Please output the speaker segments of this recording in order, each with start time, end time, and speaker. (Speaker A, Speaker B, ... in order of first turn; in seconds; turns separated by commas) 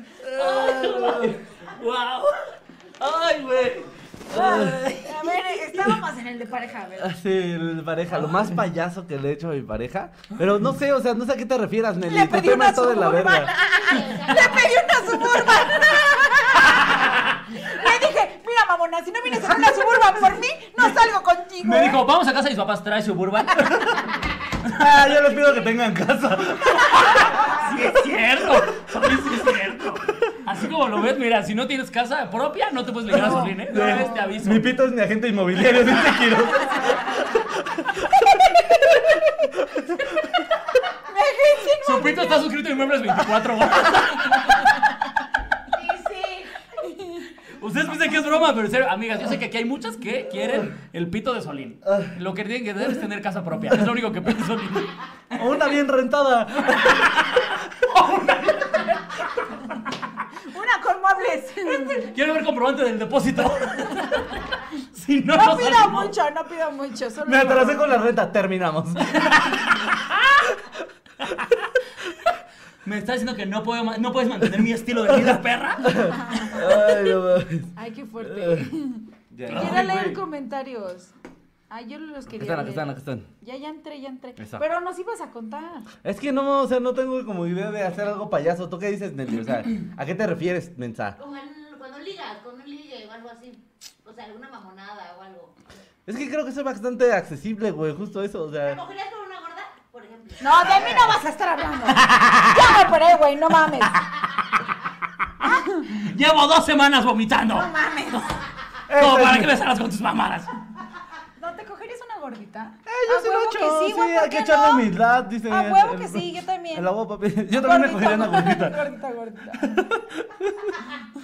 Speaker A: 0.2-1.4, Speaker B: 0.3-5.4, Speaker A: 4.3-4.8, Speaker C: 4.3-7.2, Speaker A: 7.0-13.5, Speaker B: 8.2-8.6, Speaker C: 12.0-22.0, Speaker D: 13.5-15.7, Speaker B: 21.6-23.9, Speaker A: 24.7-27.2, Speaker B: 26.9-34.7, Speaker C: 33.1-34.4, Speaker A: 33.1-38.8, Speaker C: 40.9-42.5, Speaker B: 41.8-44.7, Speaker D: 45.7-46.5, Speaker C: 46.8-47.2, Speaker B: 47.5-55.6, Speaker A: 51.9-52.1, Speaker A: 55.4-57.0, Speaker B: 56.6-59.8, Speaker C: 60.5-62.1, Speaker B: 61.8-66.1, Speaker C: 65.3-68.0, Speaker A: 67.2-69.2, Speaker B: 69.0-70.1, Speaker B: 72.8-76.6, Speaker A: 75.8-78.7, Speaker C: 76.0-76.8, Speaker C: 77.8-81.1, Speaker A: 79.3-80.2, Speaker B: 79.5-79.9, Speaker C: 81.7-85.9, Speaker A: 82.3-83.3, Speaker A: 84.4-84.6, Speaker A: 86.0-91.2, Speaker D: 91.2-95.5, Speaker A: 96.1-98.8, Speaker D: 98.6-100.9, Speaker C: 100.4-104.1, Speaker A: 100.7-101.2, Speaker B: 101.9-102.7, Speaker C: 105.4-105.8, Speaker B: 105.4-108.3, Speaker C: 107.5-108.3, Speaker A: 108.9-109.5, Speaker B: 109.0-110.5, Speaker C: 111.4-114.9, Speaker A: 112.9-118.9, Speaker C: 115.5-116.9, Speaker C: 117.5-119.8, Speaker A: 119.6-120.7